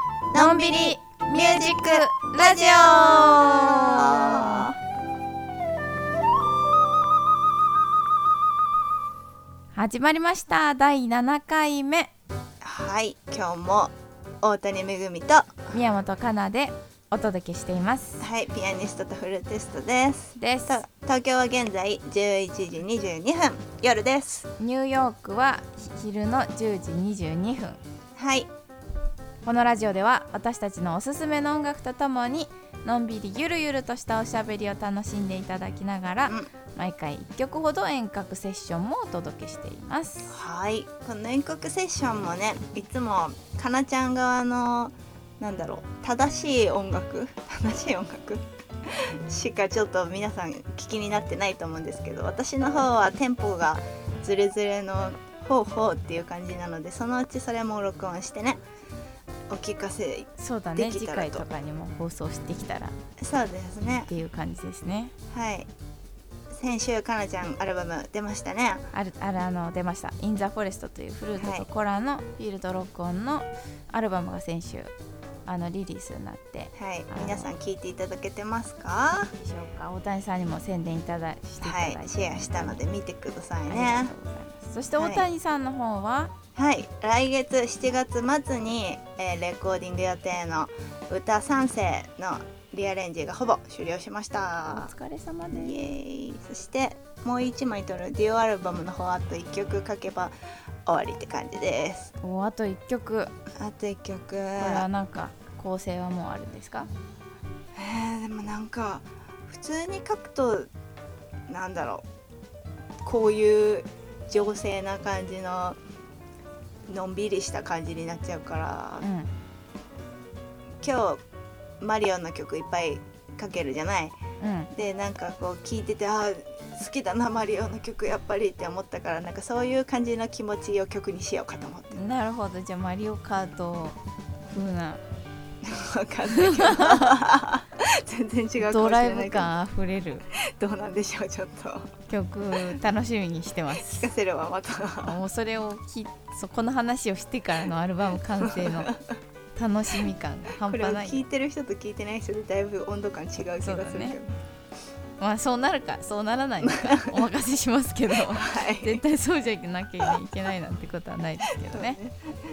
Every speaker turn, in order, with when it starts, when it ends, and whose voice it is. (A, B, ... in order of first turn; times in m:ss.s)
0:00.3-0:04.8 A
0:00.3-0:04.7 B
0:09.7-0:12.1 B
0:12.6-0:15.8 A
0:15.7-0:18.3 B
0:18.2-0:24.5 A
0:20.4-0:20.8 B
0:24.6-0:27.8 B
0:28.2-0:28.5 A
0:29.4-0:40.4 B
0:40.3-0:58.6 A
0:59.5-1:01.4 A
1:00.4-1:03.0 B
1:03.2-1:04.1 A
1:04.1-1:05.1 B
1:05.3-1:05.7 A
1:06.5-1:08.9 A
1:08.9-1:14.9 B
1:11.4-1:11.6 A
1:15.4-1:17.5 B
1:16.8-1:19.3 A
1:19.3-1:22.8 B
1:21.6-1:24.1 A
1:23.7-1:26.3 B
1:25.0-1:25.2 A
1:26.5-1:34.9 A
1:34.7-1:35.8 B
1:35.5-1:40.3 A
1:40.8-1:42.1 A
1:42.2-1:43.3 B
1:43.5-1:44.8 A
1:44.6-1:46.9 B
1:47.7-1:50.7 A
1:51.5-1:52.0 A
1:53.0-1:55.8 A
1:56.9-1:59.0 A
1:59.0-1:59.3 B
2:00.8-2:01.2 A
2:01.8-2:04.2 A
2:04.4-2:04.7 B
2:04.7-2:12.0 A
2:11.9-2:15.0 B
2:15.6-2:19.5 A
2:16.3-2:17.2 B
2:18.6-2:20.3 B
2:20.3-2:21.9 A
2:22.1-2:24.1 B
2:23.8-2:25.2 A
2:25.0-2:28.9 B
2:28.4-2:29.1 A
2:29.6-2:31.2 B
2:30.6-2:34.4 A
2:33.6-2:34.2 B
2:35.2-2:42.0 B
2:36.6-2:37.2 A
2:38.1-2:39.0 A
2:41.6-2:42.3 A